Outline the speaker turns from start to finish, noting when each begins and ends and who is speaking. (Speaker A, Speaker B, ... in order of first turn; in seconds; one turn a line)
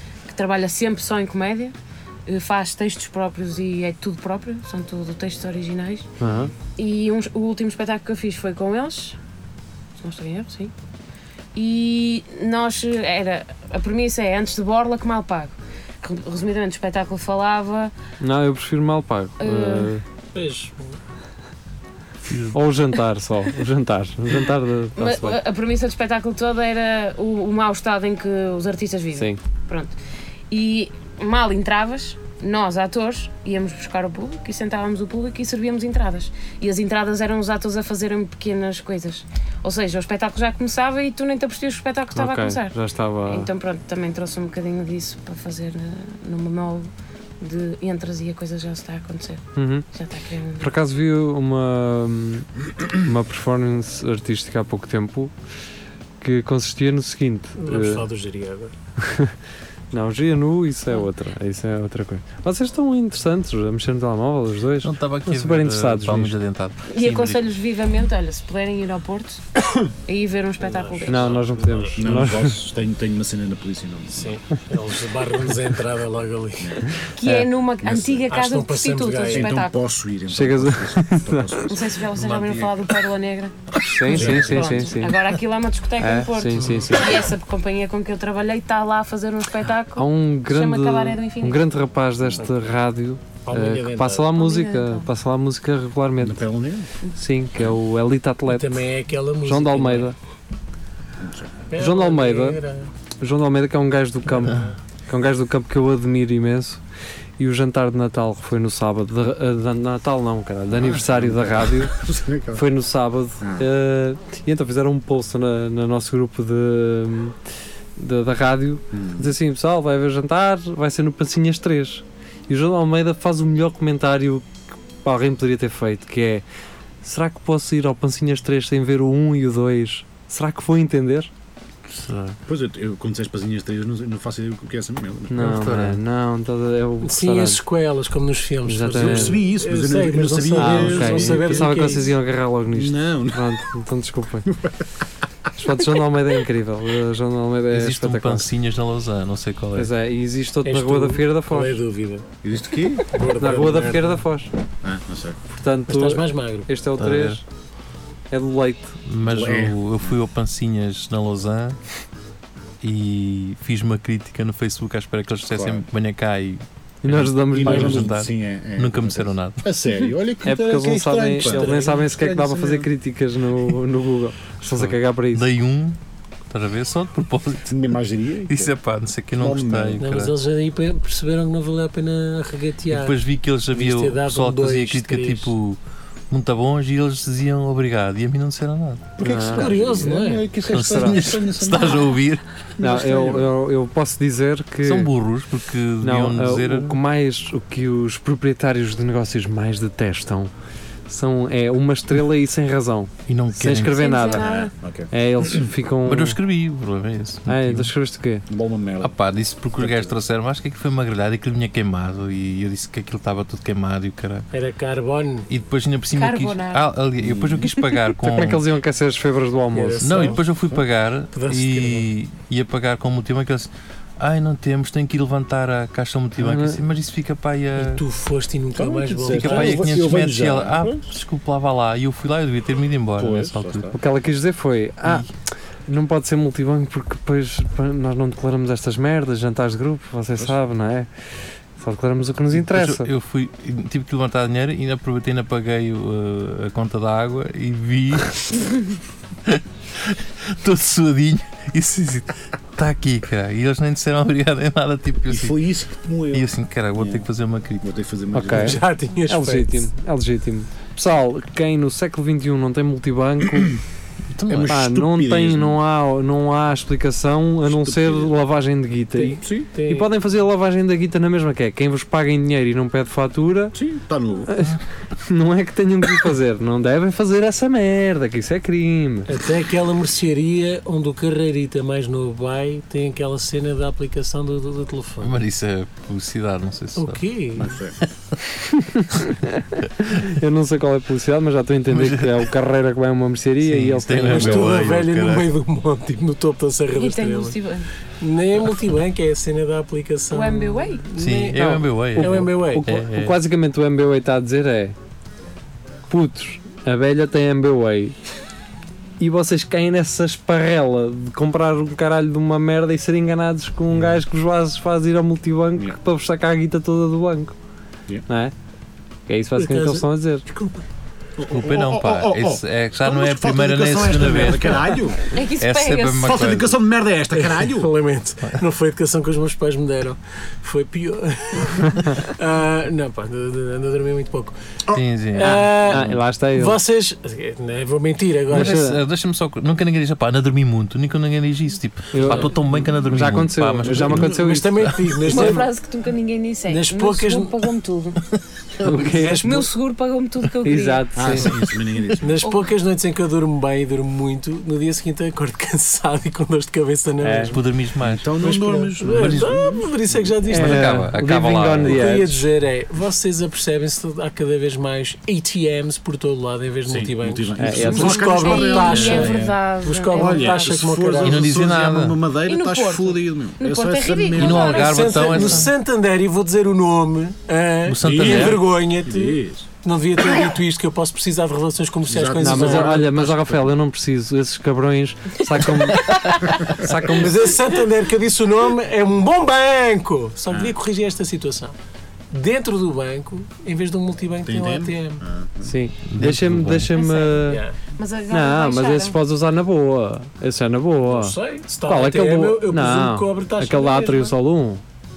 Speaker A: 0.2-1.7
Speaker A: 2.3-6.1
Speaker B: 6.2-6.5
Speaker A: 6.8-9.2
Speaker A: 10.0-10.7
Speaker A: 11.5-17.9
Speaker B: 18.2-20.0
Speaker A: 19.4-19.9
Speaker C: 20.3-21.0
Speaker D: 22.3-22.6
Speaker B: 22.5-25.4
Speaker A: 24.9-29.9
Speaker A: 30.5-50.7
Speaker B: 42.1-43.5
Speaker B: 49.5-49.9
Speaker B: 50.6-55.3
Speaker B: 56.2-58.0
Speaker C: 57.6-58.7
Speaker B: 59.0-59.3
Speaker B: 59.9-66.3
Speaker D: 64.8-67.4
Speaker A: 66.9-69.4
Speaker A: 70.0-71.4
Speaker C: 70.6-72.1
Speaker B: 71.0-72.6
Speaker E: 72.0-74.4
Speaker C: 74.1-76.8
Speaker A: 77.2-79.8
Speaker E: 77.8-78.3
Speaker C: 78.3-79.6
Speaker E: 79.2-81.8
Speaker B: 80.3-81.6
Speaker A: 81.7-91.6
Speaker D: 82.1-82.9
Speaker B: 83.8-85.2
Speaker E: 84.0-84.8
Speaker C: 84.2-84.5
Speaker B: 86.0-87.3
Speaker D: 86.6-86.9
Speaker B: 90.0-96.5
Speaker C: 93.5-94.3
Speaker A: 94.3-95.1
Speaker E: 96.2-96.9
Speaker B: 97.2-98.7
Speaker C: 98.5-100.1
Speaker B: 99.4-100.1
Speaker E: 101.2-101.5
Speaker C: 101.7-102.9
Speaker B: 101.8-102.6
Speaker B: 103.2-106.8
Speaker C: 104.4-104.7
Speaker B: 107.4-111.9
Speaker E: 110.7-112.6
Speaker B: 112.5-117.3
Speaker E: 113.4-113.7
Speaker B: 118.0-124.5
Speaker E: 118.9-119.3
Speaker B: 125.0-126.4
Speaker B: 127.0-131.3
Speaker D: 131.9-132.4
Speaker E: 132.5-135.6
Speaker B: 135.3-137.6
Speaker D: 135.3-136.0
Speaker C: 137.0-142.2
Speaker B: 138.7-139.4
Speaker E: 138.9-141.6
Speaker B: 140.5-144.5
Speaker E: 142.7-143.7
Speaker E: 144.4-144.8
Speaker B: 145.6-148.5
Speaker D: 147.7-149.9
Speaker B: 149.7-151.8
Speaker C: 150.6-152.2
Speaker E: 152.4-153.1
Speaker C: 153.1-154.2
Speaker B: 153.4-154.5
Speaker E: 154.8-155.4
Speaker B: 155.5-157.4
Speaker C: 155.9-156.7
Speaker D: 157.0-157.4
Speaker B: 158.3-159.0
Speaker D: 159.1-161.8
Speaker E: 159.2-160.1
Speaker D: 162.8-169.6
Speaker E: 165.5-165.8
Speaker B: 167.0-168.1
Speaker E: 167.5-172.9
Speaker B: 170.4-175.4
Speaker C: 171.4-172.0
Speaker D: 174.7-176.0
Speaker D: 176.5-177.8
Speaker E: 177.7-178.7
Speaker D: 178.5-180.3
Speaker E: 179.3-180.0
Speaker C: 180.0-183.2
Speaker D: 182.9-185.8
Speaker C: 183.7-185.5
Speaker D: 186.3-189.3
Speaker E: 189.2-192.1
Speaker B: 189.2-189.7
Speaker C: 189.5-190.5
Speaker D: 190.6-192.4
Speaker B: 190.7-191.2
Speaker E: 192.8-193.5
Speaker B: 192.8-195.1
Speaker D: 194.8-197.0
Speaker B: 196.0-200.5
Speaker B: 201.1-204.4
Speaker D: 203.3-204.4
Speaker A: 203.9-204.7
Speaker E: 204.4-205.1
Speaker B: 205.1-206.4
Speaker D: 206.1-207.9
Speaker B: 207.5-208.4
Speaker E: 208.5-209.1
Speaker D: 209.0-214.5
Speaker E: 209.8-210.2
Speaker C: 214.5-215.5
Speaker D: 215.5-218.7
Speaker A: 216.1-216.8
Speaker E: 217.2-217.7
Speaker B: 218.2-220.3
Speaker C: 219.7-220.5
Speaker D: 220.0-228.0
Speaker C: 221.3-222.1
Speaker B: 226.4-226.8
Speaker C: 227.8-230.0
Speaker E: 228.7-231.0
Speaker D: 229.3-233.9
Speaker E: 233.2-234.0
Speaker B: 233.9-235.3
Speaker B: 235.9-241.1
Speaker B: 241.8-243.1
Speaker D: 242.5-248.8
Speaker D: 249.4-255.6
Speaker E: 255.3-257.3
Speaker D: 256.3-257.9
Speaker E: 257.8-258.8
Speaker B: 258.3-263.8
Speaker C: 258.5-259.8
Speaker D: 264.3-264.7
Speaker E: 264.5-265.8
Speaker B: 264.6-273.8
Speaker E: 267.6-268.4
Speaker C: 269.2-270.1
Speaker E: 269.4-269.7
Speaker E: 273.7-274.5
Speaker B: 274.5-279.3
Speaker C: 279.3-285.4
Speaker D: 285.2-287.2
Speaker C: 286.9-287.8
Speaker E: 287.6-288.0
Speaker B: 288.7-294.8
Speaker D: 291.9-292.5
Speaker D: 293.6-295.5
Speaker C: 294.2-297.6
Speaker A: 296.9-297.9
Speaker C: 298.2-302.9
Speaker A: 300.3-301.1
Speaker D: 301.2-303.4
Speaker B: 302.1-304.9
Speaker B: 306.1-308.1
Speaker B: 309.2-317.5
Speaker B: 318.3-318.5
Speaker B: 319.3-320.4
Speaker C: 319.6-320.9
Speaker E: 321.4-325.3
Speaker D: 321.5-326.8
Speaker C: 324.2-324.6
Speaker A: 325.3-326.4
Speaker E: 326.2-327.9
Speaker C: 327.4-334.5
Speaker D: 334.9-336.1
Speaker C: 335.4-338.9
Speaker B: 335.4-336.8
Speaker B: 338.5-339.0
Speaker D: 338.5-344.3
Speaker B: 342.1-344.7
Speaker E: 343.8-344.5
Speaker C: 344.1-345.7
Speaker A: 345.2-348.2
Speaker C: 346.7-347.6
Speaker B: 348.8-349.5
Speaker C: 348.8-349.7
Speaker A: 349.4-351.5
Speaker B: 350.6-351.5
Speaker E: 351.1-352.4
Speaker C: 352.2-357.6
Speaker A: 352.4-352.7
Speaker B: 357.2-357.6
Speaker D: 357.5-358.3
Speaker E: 358.0-360.3
Speaker C: 358.4-361.0
Speaker D: 359.1-359.7
Speaker B: 360.4-362.4
Speaker D: 360.5-362.0
Speaker C: 361.8-371.5
Speaker E: 366.9-369.5
Speaker B: 367.6-368.5
Speaker A: 367.9-371.0
Speaker D: 369.0-369.4
Speaker E: 370.1-375.3
Speaker D: 371.2-372.2
Speaker A: 372.4-375.6
Speaker D: 374.3-375.7
Speaker C: 374.5-383.1
Speaker D: 377.9-378.6
Speaker E: 378.0-379.7
Speaker E: 382.1-383.7
Speaker B: 382.4-387.5
Speaker C: 387.1-391.7
Speaker E: 390.5-390.7
Speaker C: 392.3-395.2
Speaker E: 394.4-395.8
Speaker B: 395.6-397.6
Speaker D: 396.1-396.9
Speaker A: 396.9-399.2
Speaker C: 397.4-397.8
Speaker B: 398.3-404.8
Speaker C: 401.1-404.3